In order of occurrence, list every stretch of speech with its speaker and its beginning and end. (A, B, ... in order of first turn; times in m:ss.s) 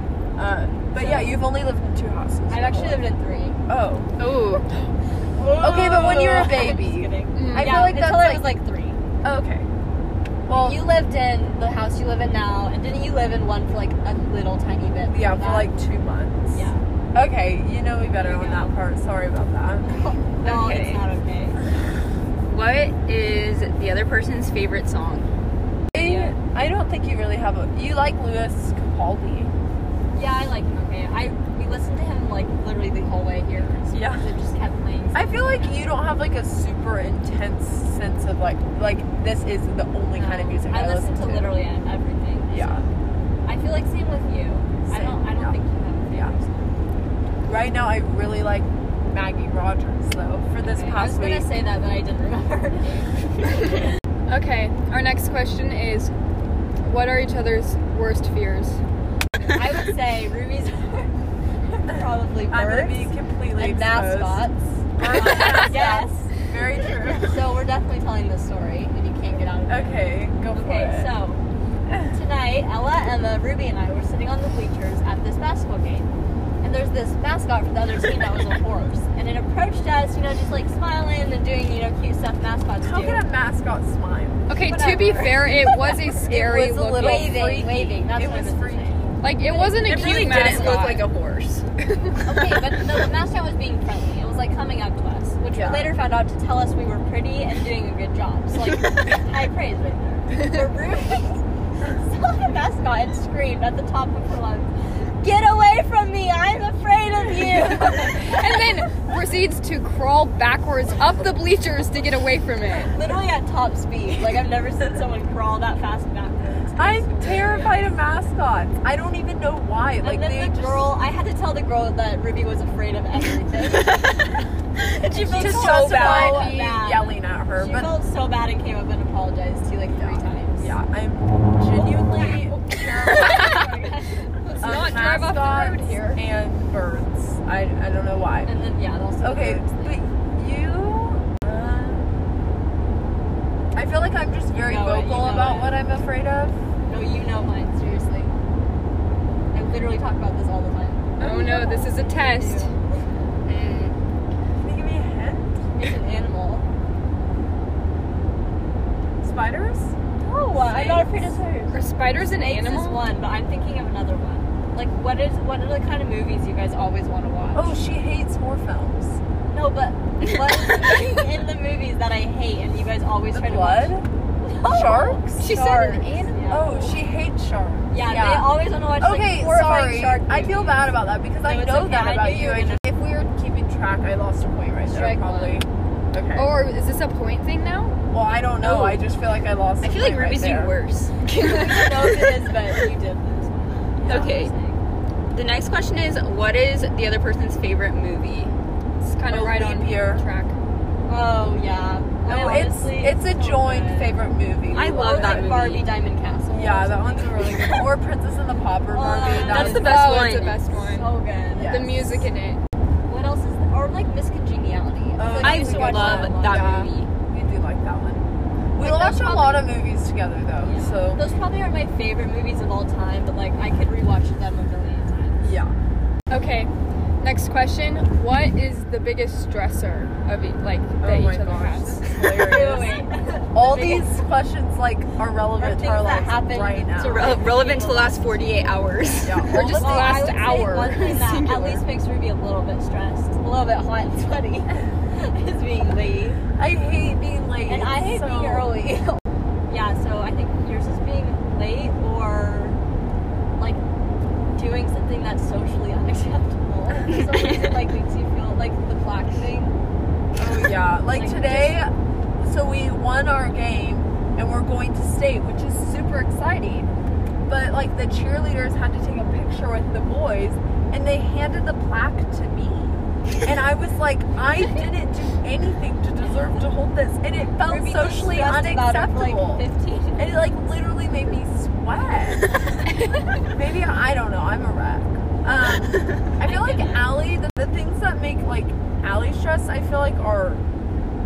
0:00.4-0:03.1 A
0:01.0-0:01.4 B
0:02.5-0:03.6 B
0:03.7-0:04.1 A
0:04.2-0:04.7 C
0:05.4-0:09.0 B
0:05.6-0:08.5 A
0:07.3-0:07.9 D
0:09.2-0:09.7 A
0:10.5-0:10.8 A
0:10.5-0:15.7 B
0:15.1-0:20.0 A
0:16.5-0:16.8 B
0:18.2-0:18.8 B
0:19.9-0:21.9 B
0:20.4-0:21.0 C
0:22.5-0:25.3 C
0:25.9-0:26.4 B
0:25.9-0:29.5 A
0:30.1-0:35.9 B
0:33.9-0:34.3 A
0:35.1-0:41.6 A
0:40.2-0:42.9 B
0:42.5-0:42.9 A
0:43.4-0:46.7 B
0:44.9-0:46.4 A
0:47.4-0:51.5 A
0:50.6-0:53.9 B
0:54.3-0:56.1 D
0:56.8-0:58.8 D
0:59.4-1:01.1 B
1:01.7-1:06.3 B
1:01.9-1:07.4 A
1:07.2-1:10.0 B
1:09.7-1:11.2 A
1:10.5-1:11.4 B
1:12.1-1:23.3 B
1:22.8-1:24.5 A
1:24.5-1:27.6 D
1:24.6-1:26.2 B
1:26.3-1:29.0 A
1:27.0-1:30.9 B
1:29.2-1:31.1 D
1:29.8-1:31.7 C
1:31.9-1:32.4 D
1:32.2-1:48.5 B
1:35.5-1:36.0 A
1:48.0-1:52.9 D
1:52.8-1:57.9 B
1:56.8-2:00.9 A
2:00.0-2:03.9 B
2:03.6-2:06.6 C
2:05.1-2:10.7 B
2:05.3-2:08.0 A
2:10.0-2:13.7 A
2:12.2-2:14.3 B
2:14.4-2:16.2 D
2:14.6-2:18.5 A
2:18.4-2:20.0 B
2:19.2-2:22.1 A
2:23.8-2:26.6 A
2:24.6-2:25.8 B
2:26.9-2:28.3 B
2:29.5-2:33.1 B
2:31.2-2:32.7 D
2:33.4-2:34.0 C
2:34.6-2:35.6 A
2:35.8-2:36.6 B
2:39.2-2:39.9 A
2:40.2-2:47.8 B
2:40.6-2:41.3 A
2:41.7-2:43.1 D
2:47.5-2:49.2 A
2:49.5-2:57.0 B
2:53.3-2:54.1 A
2:54.7-3:06.5 A
2:55.4-2:56.6 D
2:57.9-3:02.8 B
3:04.9-3:05.6 B
3:06.3-3:08.0 D
3:08.1-3:10.7 A
3:08.6-3:09.1 C
3:09.8-3:12.4 C
3:11.4-3:14.8 B
3:14.0-3:14.3 A
3:14.0-3:14.5 C
3:15.3-3:18.5 C
3:19.0-3:20.6 D
3:19.3-3:20.2 A
3:21.1-3:24.2 B
3:22.3-3:25.5 A
3:24.7-3:25.9 C
3:24.8-3:27.8 B
3:26.5-3:29.8 A
3:28.9-3:31.9 B
3:29.3-3:30.6 C
3:29.4-3:31.1 D
3:31.5-3:32.2 A
3:31.7-3:32.6 D
3:33.0-3:36.9 B
3:35.2-3:41.3 A
3:35.4-3:37.1 C
3:38.8-3:39.8 B
3:40.6-3:45.5 B
3:45.4-3:45.8 A
3:46.3-3:52.5 D
3:51.0-3:53.0 A
3:52.3-3:54.2 B
3:53.5-3:57.4 A
3:55.6-3:58.8 B
3:57.0-3:59.8 C
3:59.2-4:00.2 A
3:59.5-4:01.8 D
3:59.5-4:06.4 B
4:06.6-4:08.8 A
4:07.7-4:12.8 B
4:13.6-4:13.8 B
4:14.5-4:19.8 B
4:20.4-4:26.9 A
4:21.1-4:21.8 B
4:27.5-4:39.6 A
4:37.6-4:40.4 B
4:40.2-4:42.5 A
4:43.5-4:50.6 A
4:46.4-4:47.0 B